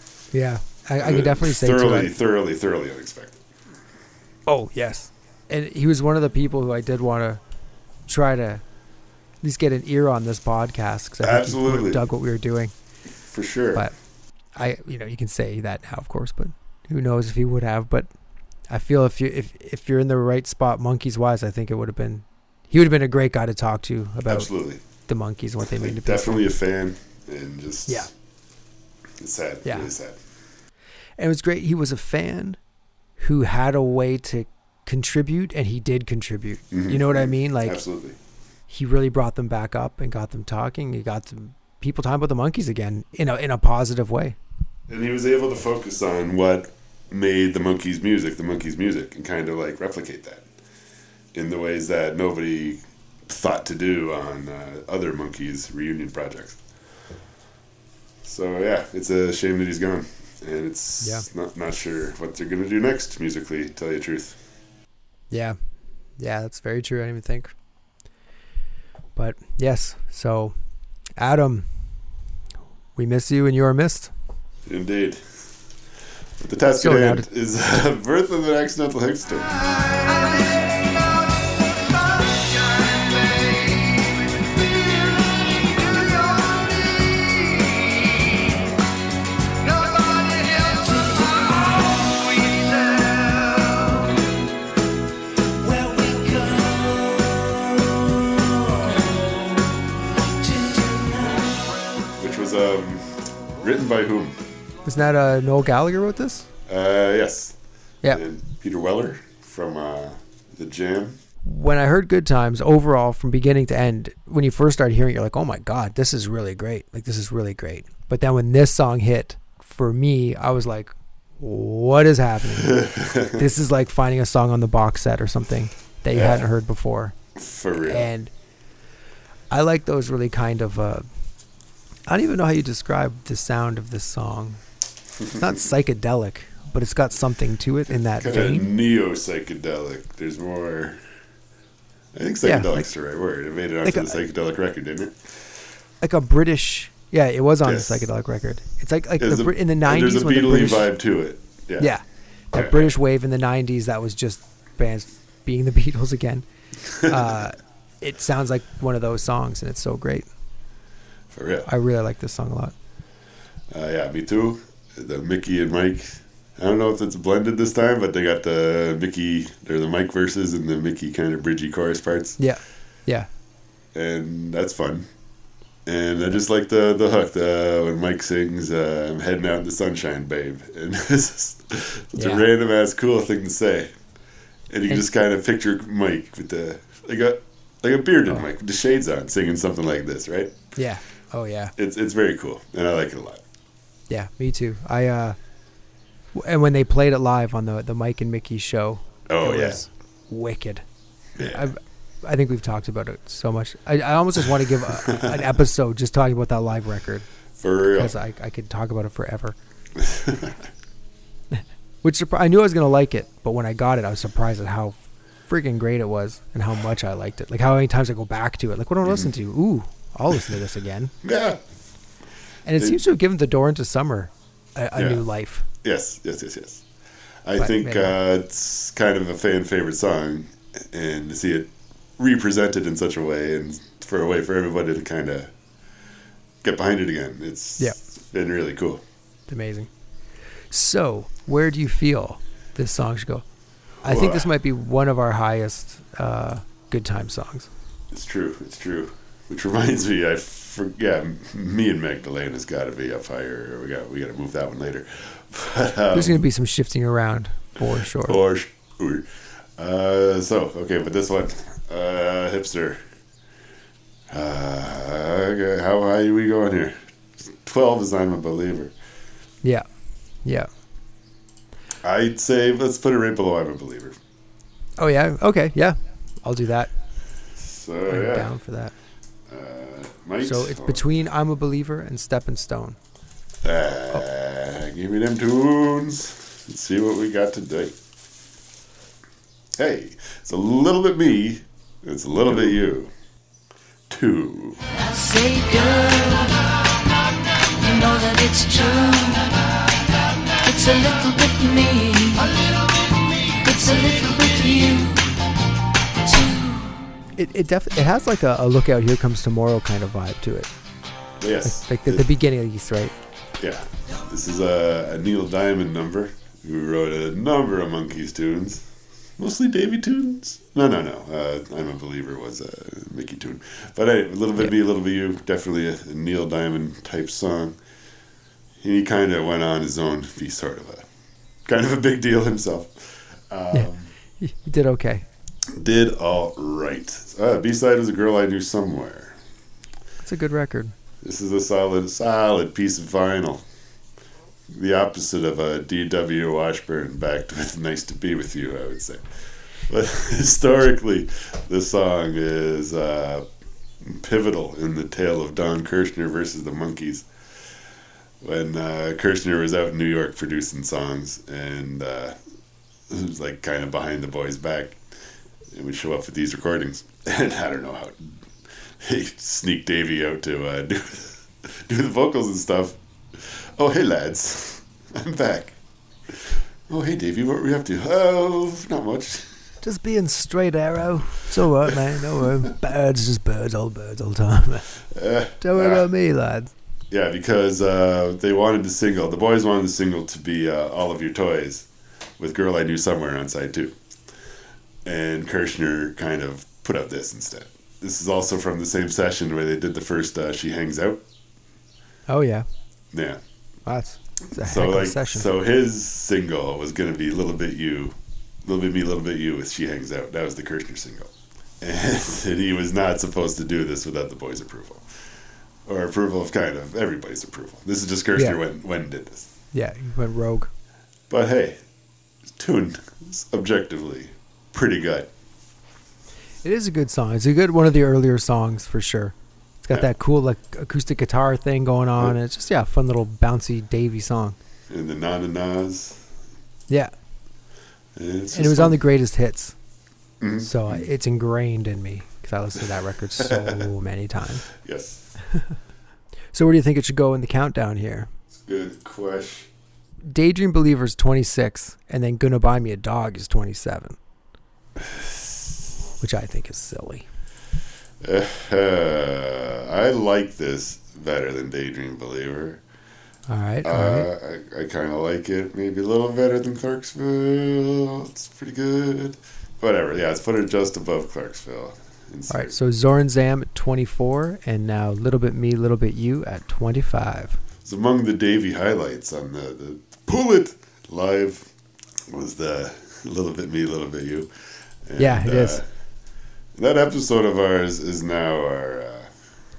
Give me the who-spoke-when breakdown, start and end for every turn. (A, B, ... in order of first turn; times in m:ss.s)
0:00.3-0:02.1 A
0:01.0-0:03.4 B
0:04.5-0:07.4 A
0:08.1-0:08.6 A
0:09.4-0:12.7 A
0:11.2-0:12.0 B
0:13.2-0:13.8 B
0:14.6-0:18.1 A
0:18.7-0:24.5 A
0:24.2-0:24.8 B
0:25.1-0:26.5 A
0:25.6-0:28.1 B
0:29.2-0:30.2 B
0:29.6-0:29.9 A
0:31.2-0:32.6 A
0:33.2-0:37.8 A
0:36.7-0:38.2 B
0:38.7-0:44.4 A
0:44.9-0:50.4 B
0:51.3-0:56.6 B
0:58.2-1:04.4 B
1:01.0-1:01.2 A
1:05.3-1:05.6 A
1:06.2-1:07.5 A
1:09.2-1:10.5 A
1:11.2-1:11.7 A
1:13.0-1:14.1 A
1:14.6-1:15.2 B
1:16.4-1:19.6 B
1:16.8-1:17.3 A
1:20.1-1:20.8 C
1:22.2-1:28.1 C
1:29.7-1:34.1 C
1:35.6-1:39.6 C
1:40.4-1:41.6 C
1:42.2-1:44.3 B
1:44.8-1:46.4 A
1:46.7-1:47.5 B
1:48.1-1:51.2 B
1:51.4-2:07.1 A
2:02.6-2:03.5 B
2:06.1-2:06.4 B
2:07.4-2:08.1 B
2:07.8-2:08.3 A
2:09.5-2:11.0 A
2:12.1-2:14.6 A
2:15.2-2:18.7 A
2:17.9-2:21.0 B
2:22.1-2:25.3 B
2:22.4-2:22.9 A
2:23.8-2:24.2 A
2:26.0-2:30.9 A
2:27.6-2:28.1 B
2:29.2-2:31.9 B
2:31.8-2:36.4 A
2:32.5-2:32.9 B
2:36.9-2:37.3 B
2:37.0-2:40.3 A
2:41.3-2:41.7 B
2:41.6-2:42.7 A
2:43.7-2:52.4 B
2:52.4-2:53.3 A
2:53.9-2:55.1 B
2:55.8-3:03.9 B
3:02.2-3:02.4 A
3:04.7-3:10.6 B
3:10.8-3:11.7 A
3:11.8-3:13.4 B
3:14.1-3:15.4 A
3:16.3-3:20.8 A
3:19.3-3:19.8 B
3:21.4-3:21.7 B
3:21.4-3:27.2 A
3:24.8-3:25.5 B
3:27.6-3:28.1 B
3:27.9-3:29.6 A
3:30.0-3:30.6 B
3:31.5-3:35.0 A
3:35.5-3:41.1 A
3:39.0-3:39.3 B
3:41.2-3:41.6 B
3:42.6-3:45.6 A
3:44.9-3:45.2 B
3:45.8-3:46.8 B
3:47.4-3:55.5 B
3:47.6-3:48.1 A
3:56.6-3:59.0 B
3:59.5-3:59.9 A
4:00.7-4:03.4 A
4:04.0-4:04.5 B
4:04.0-4:07.7 A
4:08.1-4:16.4 B
4:16.1-4:18.4 A
4:18.2-4:23.0 B
4:24.3-4:28.9 B
4:32.0-4:34.2 B
4:35.0-4:36.9 A
4:37.6-4:38.5 B
4:38.1-4:38.9 A
4:39.5-4:41.0 B
4:40.4-4:43.0 A
4:43.6-4:48.0 B
4:49.8-4:53.1 B
4:54.1-4:54.8 B
4:54.9-4:56.7 C
4:57.8-4:59.6 C
5:00.6-5:02.5 C
5:03.6-5:05.3 C
5:06.2-5:07.0 C
5:07.4-5:10.7 A
5:11.4-5:12.3 B
5:11.6-5:13.1 A
5:13.6-5:18.8 B
5:19.4-5:27.8 B
5:28.8-5:31.0 B
5:31.6-5:34.1 B
5:33.7-5:35.2 A
5:35.7-5:39.4 B
5:40.2-5:40.9 A
5:41.2-5:43.6 B
5:44.7-5:49.3 B
5:49.9-5:53.4 B
5:54.0-5:57.2 B
5:58.4-6:02.3 B
6:03.1-6:05.0 B
6:05.7-6:08.4 B
6:09.0-6:15.8 B
6:16.3-6:19.5 B
6:19.8-6:24.8 A
6:21.8-6:22.7 B
6:25.1-6:26.1 B
6:25.6-6:26.7 A
6:27.1-6:31.9 B
6:32.4-6:34.0 B
6:35.0-6:41.2 B
6:42.3-6:42.6 A
6:43.1-6:43.4 B
6:43.8-6:45.5 A
6:44.5-6:55.1 B
6:55.8-6:59.5 B
6:59.7-7:00.7 A
7:01.3-7:01.8 B
7:02.6-7:05.3 B
7:06.6-7:14.6 A
7:14.9-7:16.2 B
7:18.2-7:19.0 B
7:18.5-7:19.7 A
7:20.4-7:21.0 B
7:20.6-7:24.6 A
7:23.4-7:23.9 B
7:24.8-7:25.2 B
7:26.5-7:28.3 A
7:28.5-7:29.7 B
7:30.3-7:34.2 A
7:35.0-7:35.7 B
7:36.2-7:37.2 A
7:38.2-7:42.8 B
7:43.5-7:44.3 A
7:43.8-7:52.8 B
7:52.5-7:57.6 A
7:57.8-8:01.7 B
8:02.3-8:04.5 B
8:05.0-8:05.8 B
8:05.2-8:05.8 A
8:06.8-8:09.3 B